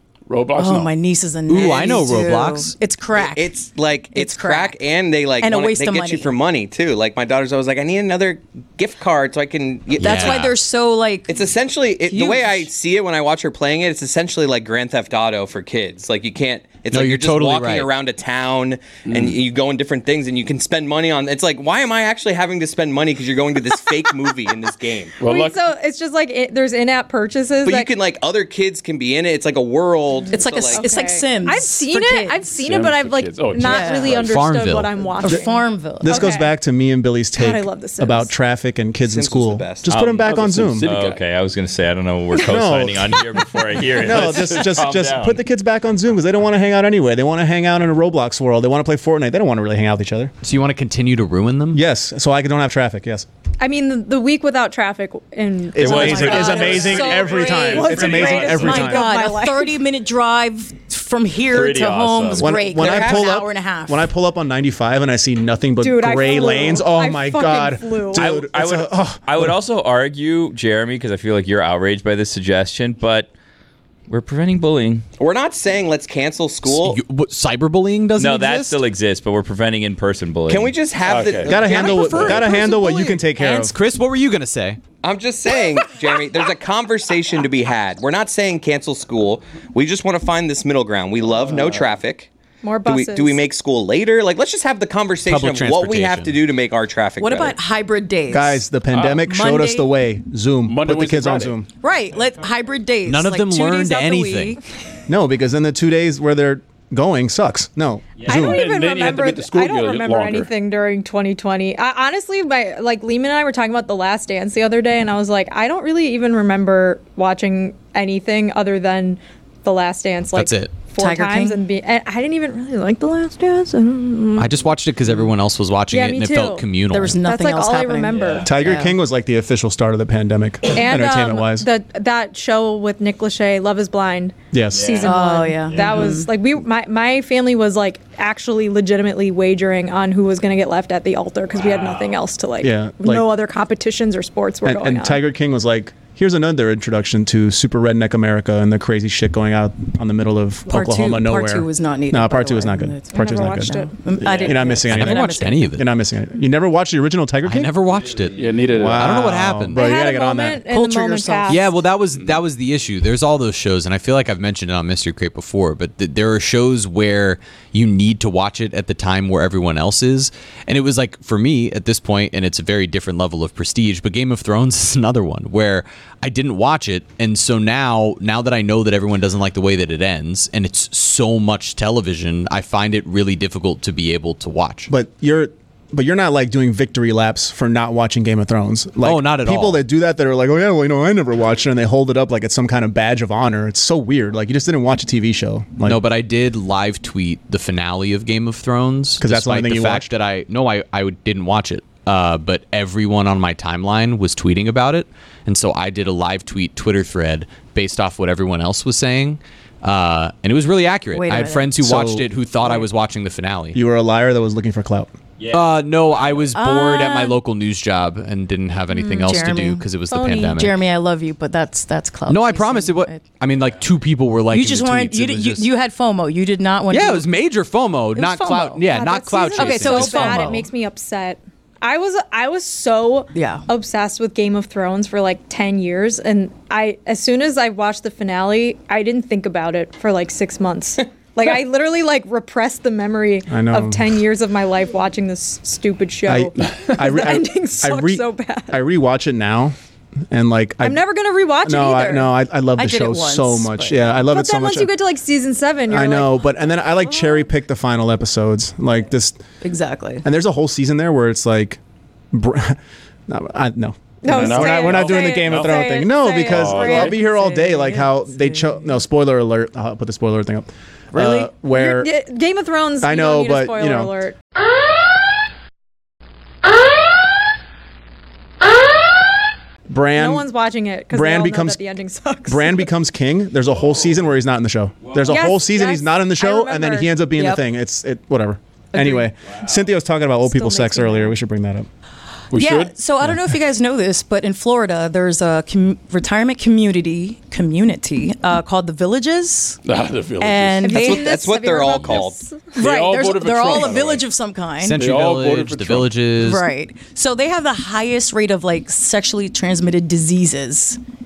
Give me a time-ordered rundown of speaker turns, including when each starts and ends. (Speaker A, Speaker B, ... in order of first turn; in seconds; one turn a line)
Speaker A: 0.3-0.9
Speaker B: 0.6-3.5
Speaker C: 1.5-2.8
Speaker D: 1.5-2.0
Speaker D: 3.1-10.5
Speaker B: 4.1-4.8
Speaker B: 5.4-6.3
Speaker C: 10.0-10.5
Speaker B: 10.0-11.3
Speaker D: 11.3-25.2
Speaker B: 12.0-12.7
Speaker C: 16.9-17.9
Speaker A: 19.1-19.4
Speaker A: 25.2-25.6
Speaker E: 25.2-27.9
Speaker D: 27.6-30.9
Speaker E: 30.3-36.5
Speaker B: 30.3-32.5
Speaker A: 32.5-34.5
Speaker B: 33.5-34.2
Speaker C: 34.2-35.0
Speaker B: 35.2-36.3
Speaker F: 36.0-40.9
Speaker E: 37.4-38.3
Speaker D: 39.0-39.9
Speaker G: 39.9-40.3
Speaker A: 40.1-41.2
Speaker G: 40.8-45.4
Speaker F: 42.4-43.3
Speaker F: 43.9-50.3
Speaker C: 50.4-51.8
Speaker F: 51.7-53.3
Speaker E: 53.6-59.7
Speaker F: 55.8-59.1
Speaker G: 55.8-57.3
Speaker B: 55.9-64.1
Speaker G: 61.5-62.6
Speaker F: 62.4-69.6
Speaker D: 62.7-63.3
Speaker E: 65.8-68.3
Speaker G: 68.2-73.3
Speaker G: 74.1-75.0
Speaker D: 75.2-77.0
Speaker C: 76.7-78.8
Speaker G: 78.2-80.8
Speaker D: 80.5-82.6
Speaker A: 81.0-82.4
Speaker F: 81.5-83.8
Speaker C: 81.9-84.8
Speaker D: 85.0-92.3
Speaker A: 91.5-91.8
Speaker E: 92.6-93.4
Speaker D: 92.8-97.6
Speaker C: 95.2-96.4
Speaker B: 97.2-100.0
Speaker F: 98.3-101.7
Speaker A: 98.9-99.2
Speaker A: 100.6-101.6
Speaker B: 101.8-104.6
Speaker C: 103.0-104.6
Speaker F: 105.1-108.7
Speaker A: 108.2-110.5
Speaker E: 108.2-124.5
Speaker C: 120.3-120.8
Speaker B: 120.9-121.6
Speaker C: 124.4-127.2
Speaker E: 125.9-126.7
Speaker B: 126.9-129.0
Speaker E: 127.2-128.5
Speaker G: 128.2-128.5
Speaker F: 128.4-131.7
Speaker E: 130.7-145.2
Speaker F: 134.5-135.0
Speaker G: 134.8-135.1
Speaker B: 135.0-136.3
Speaker F: 142.6-143.3
Speaker F: 144.7-157.7
Speaker B: 150.7-155.7
Speaker E: 153.1-154.0
Speaker C: 154.9-155.9
Speaker C: 157.4-159.8
Speaker A: 158.3-159.2
Speaker F: 158.7-160.7
Speaker E: 159.7-161.7
Speaker B: 160.7-161.8
Speaker C: 161.5-184.9
Speaker A: 162.2-162.4
Speaker F: 184.9-196.0
Speaker C: 189.0-189.8
Speaker C: 195.8-213.8
Speaker F: 199.2-200.1
Speaker B: 211.1-211.8
Speaker F: 211.8-212.3
Speaker F: 213.7-215.1
Speaker G: 215.4-215.8
Speaker C: 215.5-220.8
Speaker B: 216.5-217.4
Speaker E: 218.9-220.6
Speaker B: 219.2-219.8
Speaker B: 220.4-223.3
Speaker C: 222.3-225.7
Speaker B: 224.5-227.3
Speaker C: 226.9-230.5
Speaker B: 228.2-228.8
Speaker E: 228.2-248.8
Speaker B: 229.5-230.7
Speaker B: 233.3-233.7
Speaker F: 243.5-244.2
Speaker F: 246.3-249.8
Speaker F: 250.3-251.0
Speaker E: 250.8-252.3
Speaker F: 251.6-254.9
Speaker B: 252.8-254.1
Speaker E: 254.2-256.5
Speaker F: 255.9-259.4
Speaker B: 259.6-260.2
Speaker F: 260.2-261.8
Speaker F: 262.3-272.1
Speaker E: 264.2-267.2
Speaker A: 264.3-265.9
Speaker A: 266.4-267.2
Speaker B: 266.8-268.9
Speaker E: 271.7-274.4
Speaker F: 273.0-274.1
Speaker F: 279.9-280.5
Speaker E: 280.1-282.9
Speaker F: 281.1-281.8
Speaker F: 282.5-291.9
Speaker E: 285.2-287.2
Speaker B: 287.4-287.6
Speaker B: 288.9-289.3
Speaker E: 290.4-291.4
Speaker A: 292.5-292.9
Speaker B: 292.5-299.8
Speaker A: 299.9-300.9
Speaker B: 300.4-301.4
Speaker E: 300.8-302.8
Speaker D: 300.9-302.4
Speaker A: 302.8-304.3
Speaker B: 302.8-305.0
Speaker C: 304.8-306.7
Speaker A: 305.0-306.3
Speaker B: 306.3-311.0